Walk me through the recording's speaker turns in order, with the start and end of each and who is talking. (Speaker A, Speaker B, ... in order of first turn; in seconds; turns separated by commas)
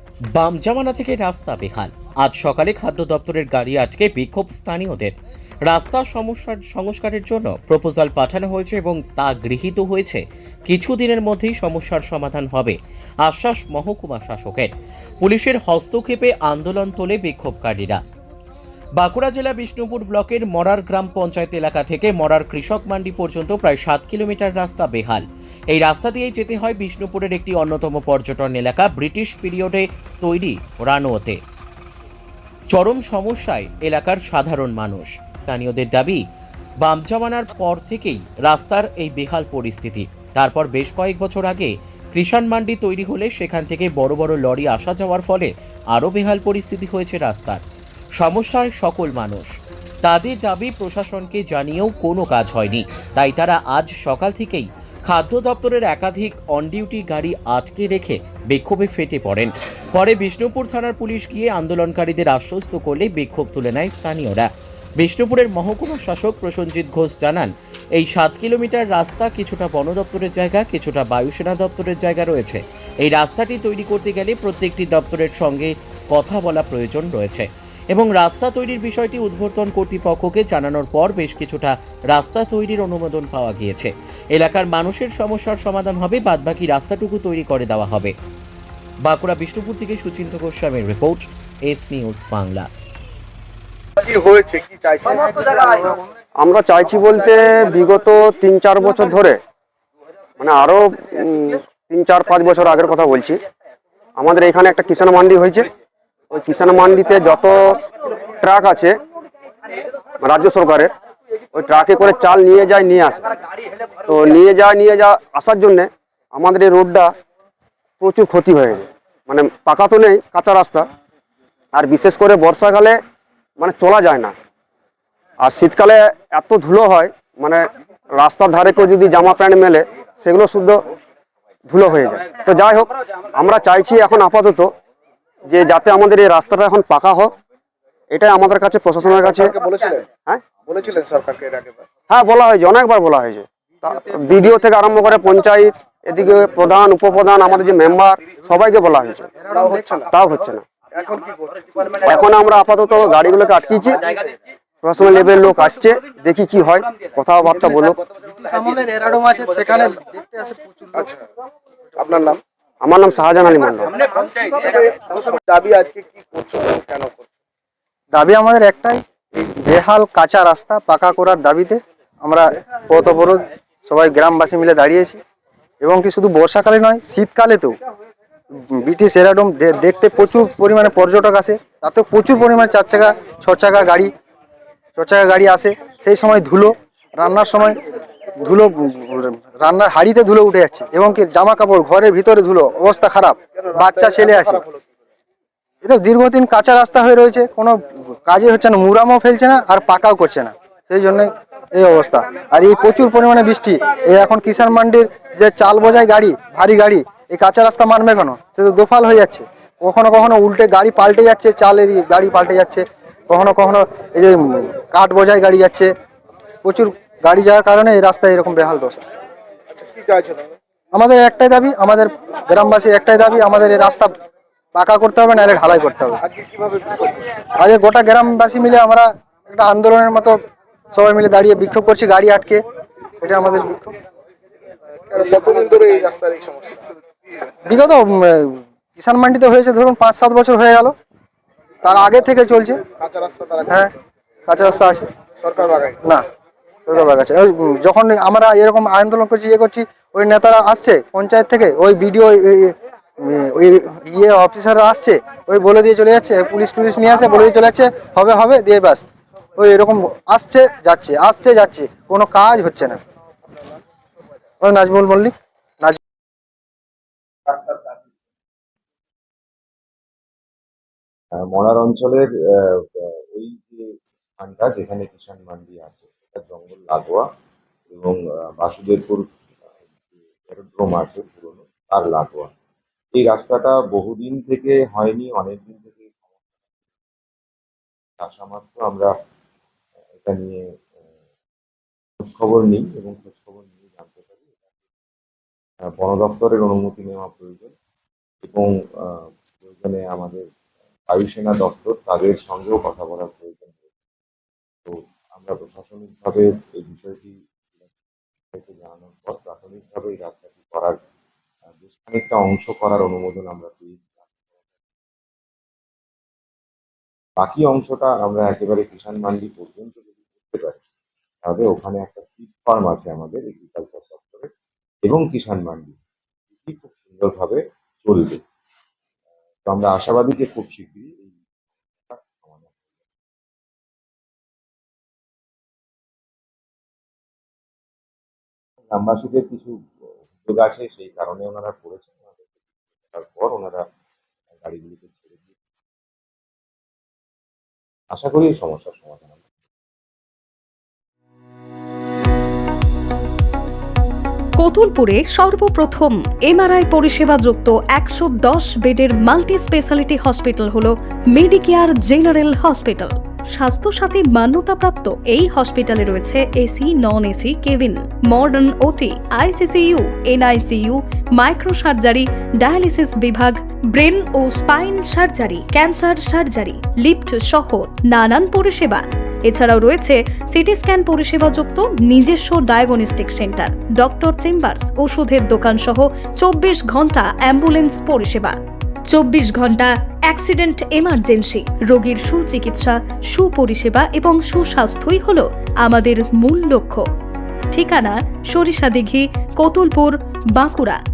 Speaker A: 0.3-5.1, Speaker A: 5.7-18.0, Speaker A: 19.0-31.4, Speaker A: 32.7-36.2, Speaker A: 36.8-47.6, Speaker A: 48.2-49.5, Speaker A: 50.0-64.5, Speaker A: 65.0-88.1, Speaker A: 89.0-92.7, Speaker B: 94.0-95.7, Speaker C: 95.4-96.0, Speaker D: 96.4-99.4, Speaker D: 100.4-103.4, Speaker D: 104.2-105.7, Speaker D: 106.3-107.8, Speaker D: 108.4-108.9, Speaker D: 110.2-110.9, Speaker D: 111.5-113.2, Speaker D: 114.1-117.1, Speaker D: 118.0-120.9, Speaker D: 121.7-123.0, Speaker D: 123.6-124.3, Speaker D: 125.4-127.6, Speaker D: 128.2-130.8, Speaker D: 131.7-134.7, Speaker D: 135.5-137.3, Speaker D: 138.1-139.5, Speaker B: 139.2-140.1, Speaker B: 140.6-141.8, Speaker D: 142.1-149.3, Speaker C: 149.4-149.9, Speaker B: 149.5-150.1, Speaker D: 150.1-150.6, Speaker B: 150.9-151.9, Speaker D: 152.0-154.0, Speaker D: 154.8-158.0, Speaker C: 158.2-161.1, Speaker B: 161.0-161.2, Speaker B: 162.0-162.4, Speaker D: 162.8-163.9, Speaker B: 164.4-167.3, Speaker C: 168.1-175.2, Speaker C: 175.8-177.7, Speaker C: 178.6-184.1, Speaker C: 185.0-187.8, Speaker C: 188.4-194.6, Speaker B: 193.6-194.8, Speaker C: 195.8-215.9, Speaker C: 216.7-219.0, Speaker B: 219.7-220.5, Speaker C: 220.9-224.1, Speaker C: 224.8-226.2, Speaker B: 226.3-227.2, Speaker C: 227.6-230.4, Speaker C: 230.9-232.6, Speaker C: 233.2-233.9, Speaker B: 235.1-236.8, Speaker C: 237.7-240.9, Speaker C: 241.8-242.8, Speaker B: 243.0-243.7, Speaker C: 244.5-245.1, Speaker B: 245.4-246.0, Speaker C: 246.9-259.1, Speaker C: 259.6-263.0, Speaker C: 264.6-266.0, Speaker E: 271.4-277.2, Speaker E: 277.9-279.3, Speaker E: 280.4-282.5, Speaker E: 283.1-286.4, Speaker E: 288.2-289.1, Speaker E: 290.2-290.6, Speaker E: 292.2-294.6, Speaker E: 295.9-297.7, Speaker E: 298.4-300.5, Speaker E: 301.1-303.9, Speaker E: 304.9-307.4, Speaker E: 308.5-311.0, Speaker E: 311.8-314.3, Speaker E: 317.4-320.8, Speaker E: 321.4-324.5, Speaker E: 325.0-326.0, Speaker E: 326.6-328.4, Speaker E: 329.7-331.4, Speaker E: 332.0-332.8, Speaker E: 338.9-339.7, Speaker E: 340.3-343.8, Speaker E: 344.6-345.5, Speaker E: 348.1-349.4, Speaker F: 354.6-388.6, Speaker F: 389.1-397.1, Speaker F: 397.7-401.0